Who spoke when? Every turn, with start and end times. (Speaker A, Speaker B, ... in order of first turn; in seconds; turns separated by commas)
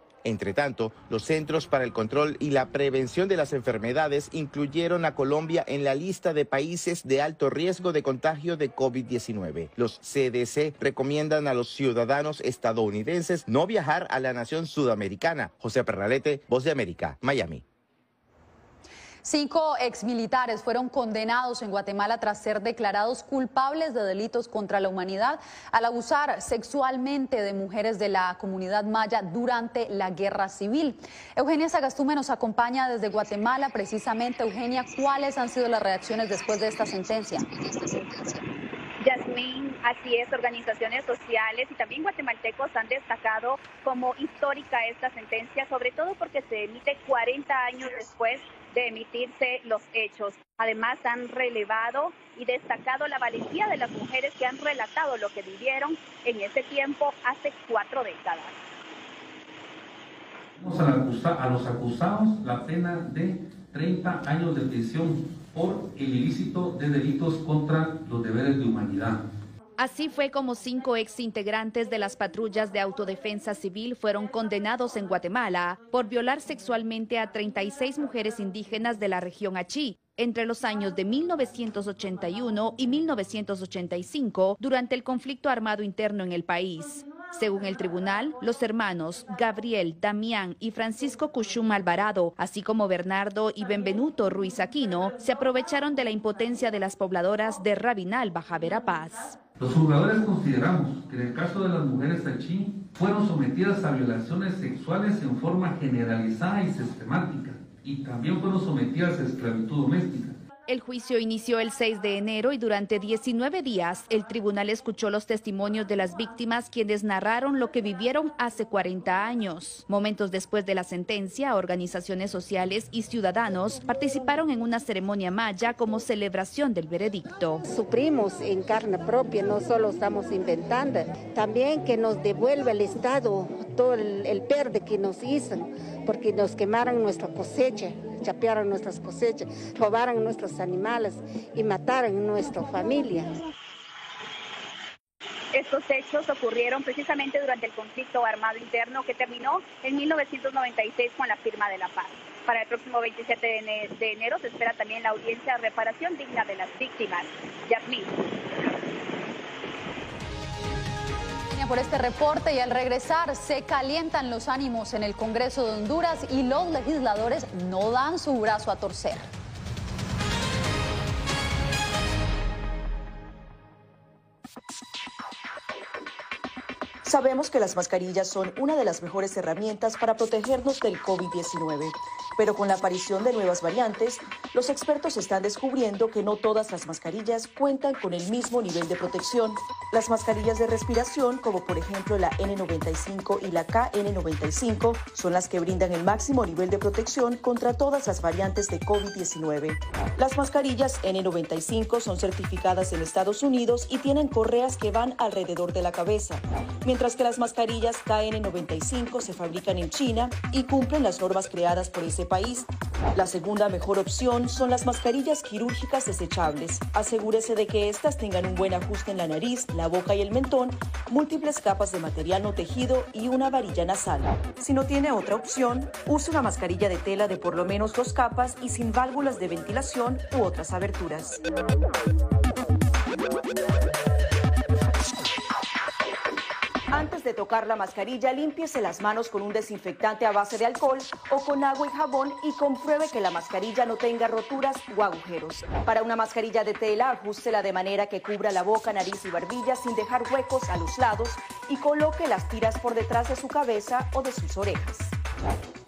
Speaker A: 0.2-17.6, Speaker B: 19.2-37.5, Speaker C: 39.0-58.5, Speaker D: 60.6-69.2, Speaker E: 69.8-99.4, Speaker D: 99.6-110.4, Speaker E: 110.7-127.6, Speaker F: 127.7-143.3, Speaker C: 145.5-158.1, Speaker B: 161.5-169.3, Speaker G: 177.0-231.4, Speaker G: 236.9-255.1